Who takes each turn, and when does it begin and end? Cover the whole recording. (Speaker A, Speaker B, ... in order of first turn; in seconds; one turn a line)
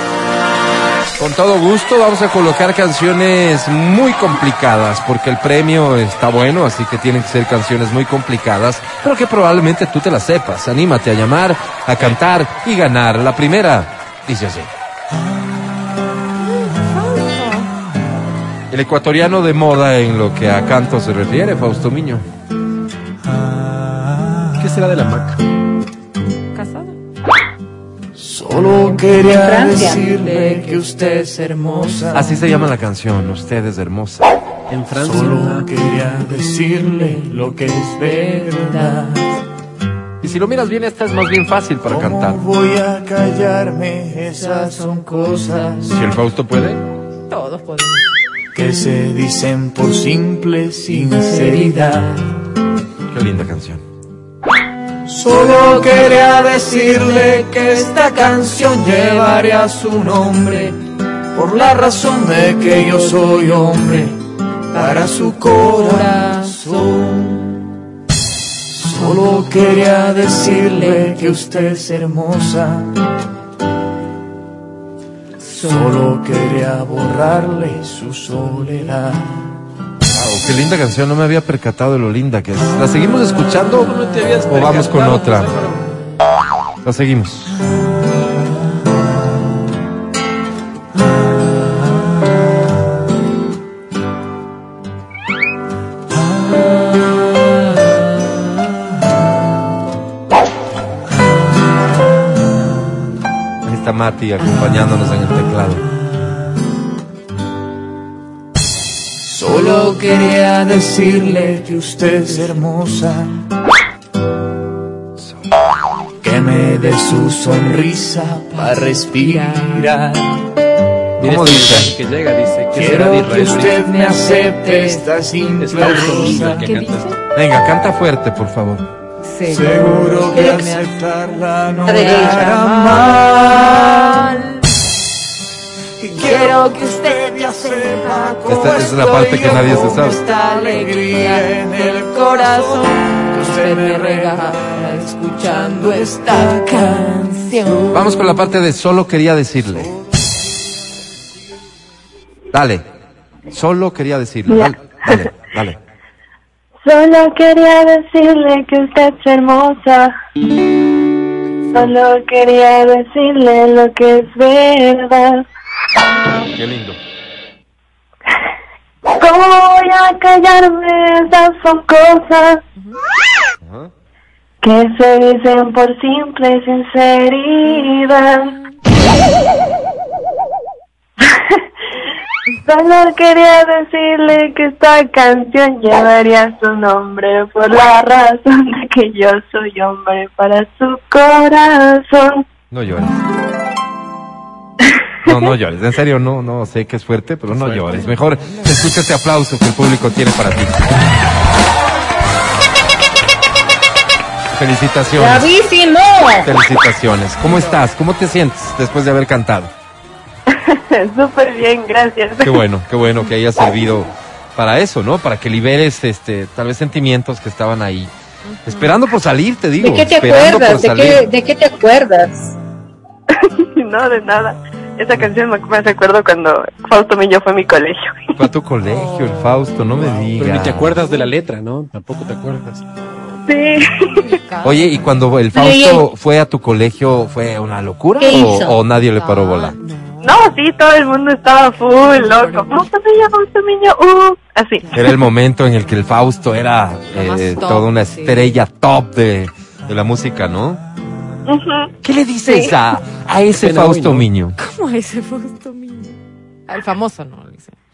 Speaker A: 1.2-14.7
Speaker B: 16.4-17.7
Speaker A: 18.7-22.2
Speaker C: 24.5-25.4
Speaker B: 26.5-27.0
Speaker D: 28.1-32.4
Speaker E: 29.4-30.1
Speaker B: 30.0-31.3
Speaker B: 32.0-32.3
Speaker A: 32.1-34.3
Speaker C: 34.7-35.7
Speaker D: 35.0-39.2
Speaker B: 38.0-39.2
Speaker A: 40.2-42.4
Speaker D: 41.9-46.0
Speaker A: 45.9-46.8
Speaker B: 47.3-48.1
Speaker D: 48.5-52.2
Speaker B: 51.5-52.2
Speaker A: 53.1-53.8
Speaker D: 55.1-60.8
Speaker D: 61.3-64.2
Speaker D: 64.7-67.6
Speaker B: 64.8-66.7
Speaker D: 68.7-72.9
Speaker B: 70.5-71.5
Speaker B: 75.4-76.1
Speaker D: 75.5-79.3
Speaker A: 80.1-83.9
Speaker C: 83.8-85.8
Speaker A: 84.5-85.5
Speaker A: 86.8-87.5
Speaker A: 103.7-105.8
Speaker B: 104.4-104.9
Speaker D: 109.2-113.4
Speaker B: 109.5-112.4
Speaker A: 115.2-115.5
Speaker D: 116.2-120.4
Speaker B: 116.5-120.0
Speaker A: 121.2-121.9
Speaker C: 121.2-123.8
Speaker D: 122.7-126.8
Speaker B: 123.2-125.1
Speaker C: 125.6-127.1
Speaker B: 125.8-127.2
Speaker A: 127.3-128.8
Speaker B: 129.2-134.6
Speaker D: 129.5-134.2
Speaker E: 131.9-132.5
Speaker D: 136.0-144.6
Speaker B: 136.1-148.5
Speaker A: 138.5-140.2
Speaker D: 145.4-147.7
Speaker A: 147.9-149.9
Speaker A: 152.5-152.8
Speaker A: 153.5-155.8
Speaker F: 154.5-155.2
Speaker F: 156.8-160.1
Speaker F: 161.7-165.5
Speaker A: 166.4-167.0
Speaker F: 169.2-172.6
Speaker A: 173.6-173.9
Speaker F: 174.6-178.5
Speaker F: 181.2-181.6
Speaker F: 182.7-192.4
Speaker A: 192.7-193.2
Speaker F: 194.8-195.3
Speaker A: 195.2-200.9
Speaker C: 197.5-198.0
Speaker B: 197.9-198.9
Speaker A: 204.5-205.5
Speaker E: 205.2-206.5
Speaker A: 206.4-209.7
Speaker B: 207.3-207.9
Speaker F: 210.5-212.6
Speaker A: 212.4-218.1
Speaker B: 218.4-219.0
Speaker A: 218.7-221.3
Speaker E: 219.8-222.5
Speaker F: 223.3-228.2
Speaker A: 228.4-230.9
Speaker B: 228.8-230.2
Speaker C: 230.0-232.8
Speaker F: 233.5-233.9
Speaker B: 234.1-235.4
Speaker A: 234.6-239.8
Speaker E: 235.5-236.1
Speaker E: 238.2-238.8
Speaker B: 239.1-240.4
Speaker F: 240.2-244.9
Speaker B: 242.1-242.9
Speaker A: 244.9-250.8
Speaker B: 247.1-248.6
Speaker F: 251.5-251.9
Speaker A: 252.0-254.6
Speaker F: 252.4-252.7
Speaker C: 253.6-254.3
Speaker B: 254.6-257.8